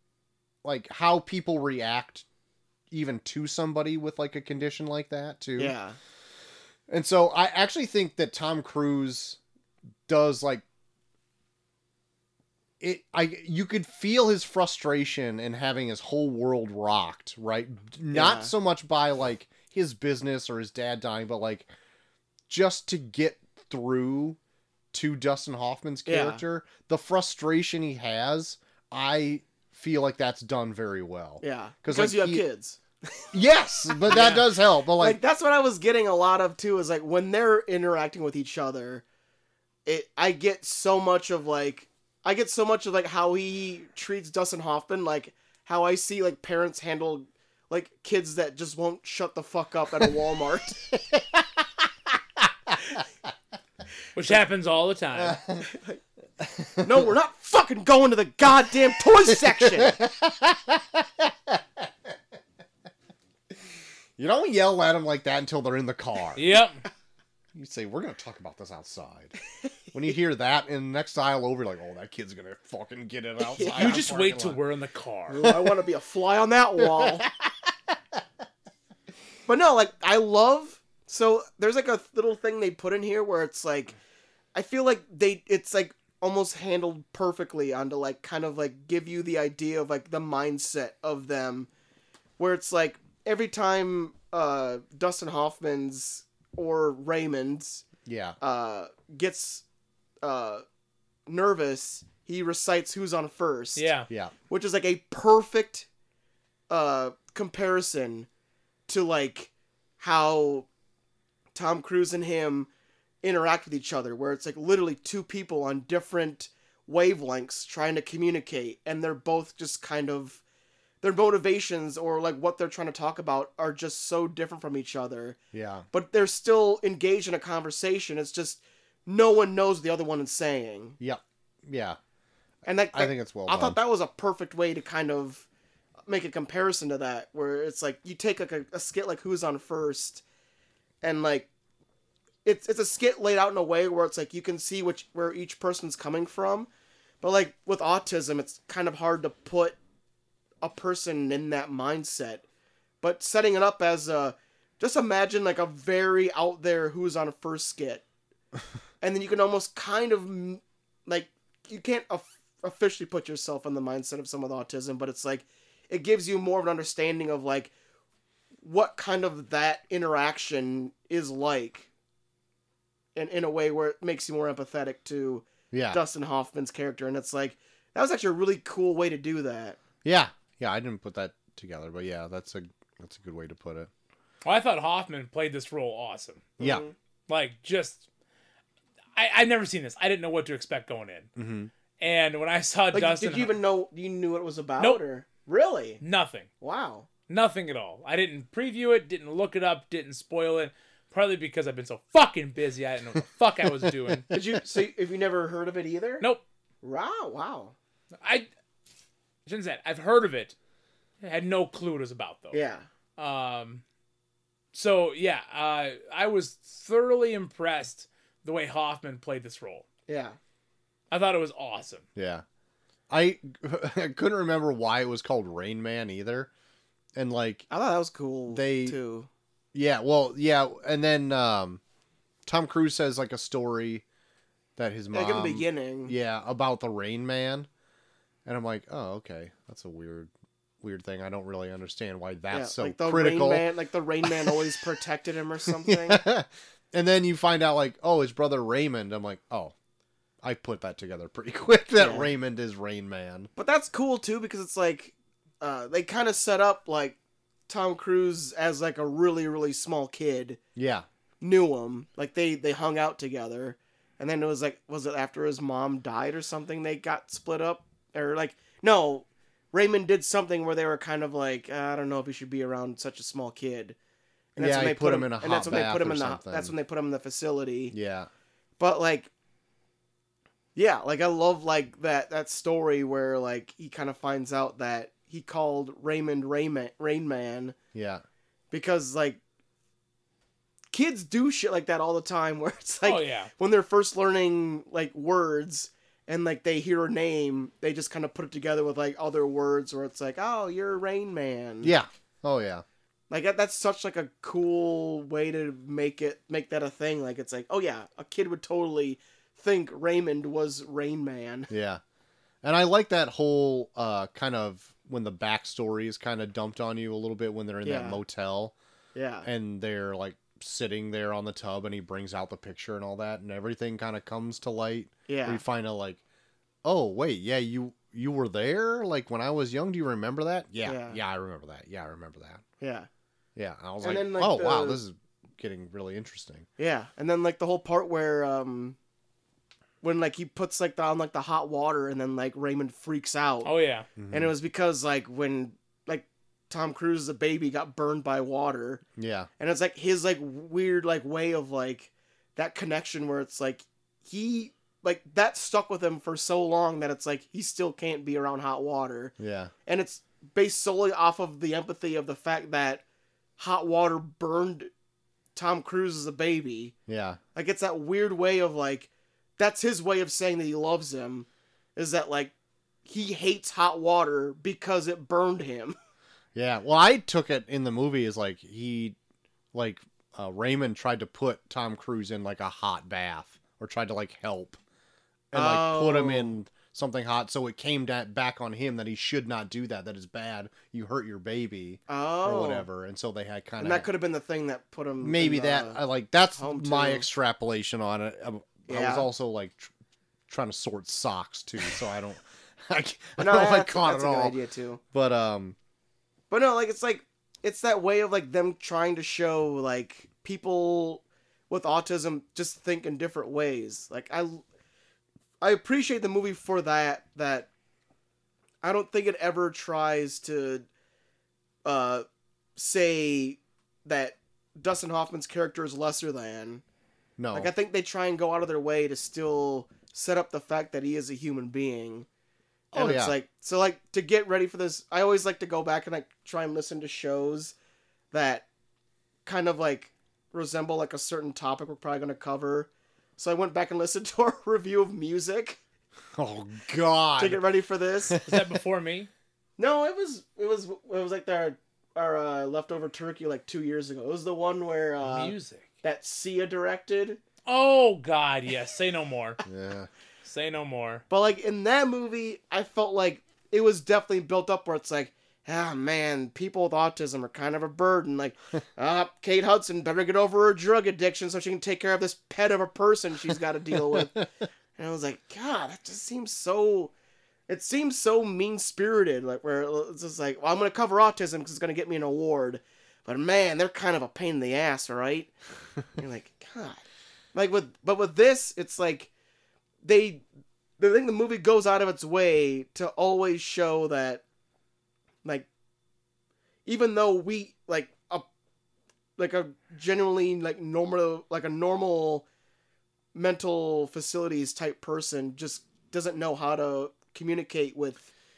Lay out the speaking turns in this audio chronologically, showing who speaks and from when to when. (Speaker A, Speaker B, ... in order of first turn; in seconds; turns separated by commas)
Speaker A: 0.6-2.2, Speaker A: 2.9-5.7, Speaker B: 5.6-6.0, Speaker A: 6.9-9.4, Speaker A: 10.1-10.6, Speaker A: 12.8-21.7, Speaker B: 18.1-18.5, Speaker A: 22.5-24.4, Speaker A: 24.9-32.4, Speaker B: 26.1-26.4, Speaker B: 31.4-33.3, Speaker A: 33.3-35.2, Speaker B: 33.9-34.4, Speaker C: 34.1-34.4, Speaker B: 34.9-39.0, Speaker B: 39.9-50.8, Speaker A: 51.1-51.4, Speaker C: 54.1-55.4, Speaker A: 55.1-55.7, Speaker B: 55.6-56.0, Speaker A: 56.4-57.1, Speaker B: 56.8-60.0, Speaker A: 59.3-61.8, Speaker A: 64.2-66.4, Speaker C: 66.3-66.8, Speaker A: 67.5-69.3, Speaker A: 69.9-74.6, Speaker B: 73.4-74.0, Speaker C: 73.7-75.5, Speaker B: 75.3-77.2, Speaker B: 79.5-84.0, Speaker B: 84.5-91.7, Speaker B: 92.4-97.8, Speaker A: 98.0-98.4, Speaker B: 98.4-99.6, Speaker B: 100.2-100.6, Speaker B: 101.3-103.9, Speaker C: 103.8-104.1, Speaker B: 104.5-105.9, Speaker B: 106.7-108.3, Speaker B: 108.9-110.7, Speaker B: 111.5-112.7, Speaker B: 113.2-120.4, Speaker B: 121.0-125.4, Speaker A: 125.5-125.9, Speaker B: 125.9-131.0, Speaker A: 131.0-132.0, Speaker B: 132.6-135.4, Speaker A: 132.9-133.8, Speaker B: 136.1-140.2, Speaker B: 141.0-141.5, Speaker B: 142.4-146.7, Speaker B: 147.2-149.8, Speaker B: 150.6-152.4, Speaker B: 153.0-158.0, Speaker B: 159.0-167.7, Speaker B: 168.6-171.9, Speaker B: 173.1-179.8, Speaker A: 175.7-176.0, Speaker A: 180.0-183.9, Speaker C: 184.4-186.6, Speaker B: 186.6-186.9, Speaker C: 187.3-188.0, Speaker C: 189.1-191.3, Speaker A: 191.3-191.7, Speaker C: 192.0-193.6, Speaker B: 192.9-196.0, Speaker C: 196.0-196.5, Speaker B: 196.6-197.1, Speaker C: 197.3-204.3, Speaker B: 204.3-206.2, Speaker B: 206.8-207.7, Speaker C: 208.2-208.5, Speaker C: 209.4-210.5, Speaker C: 211.2-212.6, Speaker B: 212.5-212.8, Speaker C: 213.2-213.8, Speaker C: 214.7-219.8, Speaker B: 220.1-220.4, Speaker C: 221.1-222.0, Speaker A: 222.2-222.4, Speaker A: 223.1-226.5, Speaker A: 227.2-227.7, Speaker B: 227.7-229.3, Speaker A: 228.5-228.9, Speaker A: 229.7-231.8, Speaker A: 232.4-234.0, Speaker A: 234.8-237.7, Speaker B: 235.1-236.1, Speaker A: 238.4-240.3, Speaker A: 240.8-243.7, Speaker B: 242.5-246.2, Speaker A: 244.2-244.7, Speaker A: 245.7-249.7, Speaker A: 250.4-253.5, Speaker B: 252.0-252.3, Speaker B: 253.6-257.2, Speaker B: 257.7-260.6, Speaker A: 260.8-261.1, Speaker B: 261.4-274.0, Speaker B: 274.6-277.9, Speaker A: 274.6-276.7, Speaker A: 277.9-278.3, Speaker B: 278.8-279.3, Speaker B: 280.7-287.8, Speaker A: 287.9-288.2, Speaker B: 288.7-289.4, Speaker B: 290.9-301.9, Speaker C: 293.0-293.5, Speaker A: 301.8-302.8, Speaker B: 303.3-311.7, Speaker A: 311.7-312.0, Speaker A: 312.6-318.8, Speaker B: 317.8-318.2, Speaker B: 319.1-319.5, Speaker A: 319.4-326.2, Speaker B: 325.3-325.6, Speaker A: 326.8-332.6, Speaker B: 330.8-331.2, Speaker B: 332.8-333.1, Speaker A: 333.6-336.6, Speaker B: 334.0-335.0, Speaker B: 336.8-338.9, Speaker B: 340.0-343.7, Speaker C: 343.6-344.1, Speaker A: 344.2-344.5, Speaker B: 344.3-349.0, Speaker A: 349.1-349.5, Speaker B: 349.6-359.3, Speaker A: 359.4-359.7, Speaker B: 359.9-363.0, Speaker B: 363.6-364.9, Speaker B: 365.5-366.9, Speaker A: 367.1-367.4, Speaker B: 367.5-372.5, Speaker B: 373.1-375.9, Speaker A: 376.5-379.1, Speaker A: 379.7-384.8, Speaker A: 385.5-394.1, Speaker B: 385.5-386.5, Speaker B: 392.1-392.9, Speaker B: 393.8-396.0, Speaker A: 395.2-399.9, Speaker B: 396.6-397.3, Speaker B: 398.9-399.3, Speaker A: 400.5-404.6, Speaker B: 403.4-405.0, Speaker A: 405.1-405.8, Speaker B: 406.5-414.6, Speaker B: 415.6-417.7, Speaker B: 418.8-420.9, Speaker B: 421.8-426.8, Speaker A: 427.4-427.7, Speaker B: 427.5-432.3, Speaker A: 432.9-433.3, Speaker B: 432.9-437.7, Speaker B: 438.3-438.6, Speaker B: 439.4-445.8, Speaker A: 446.3-447.6, Speaker B: 447.4-448.4, Speaker A: 448.3-448.7, Speaker C: 448.4-449.3, Speaker B: 449.8-457.4, Speaker C: 455.2-455.9, Speaker C: 457.6-459.6, Speaker A: 459.6-460.1, Speaker C: 460.4-461.2, Speaker B: 461.3-474.4, Speaker A: 474.0-474.4, Speaker B: 474.9-477.1, Speaker B: 477.7-485.5, Speaker B: 486.1-487.0, Speaker B: 487.5-489.3, Speaker B: 490.0-490.4, Speaker B: 491.0-494.4, Speaker B: 496.9-498.4, Speaker B: 499.4-502.4, Speaker B: 503.3-508.3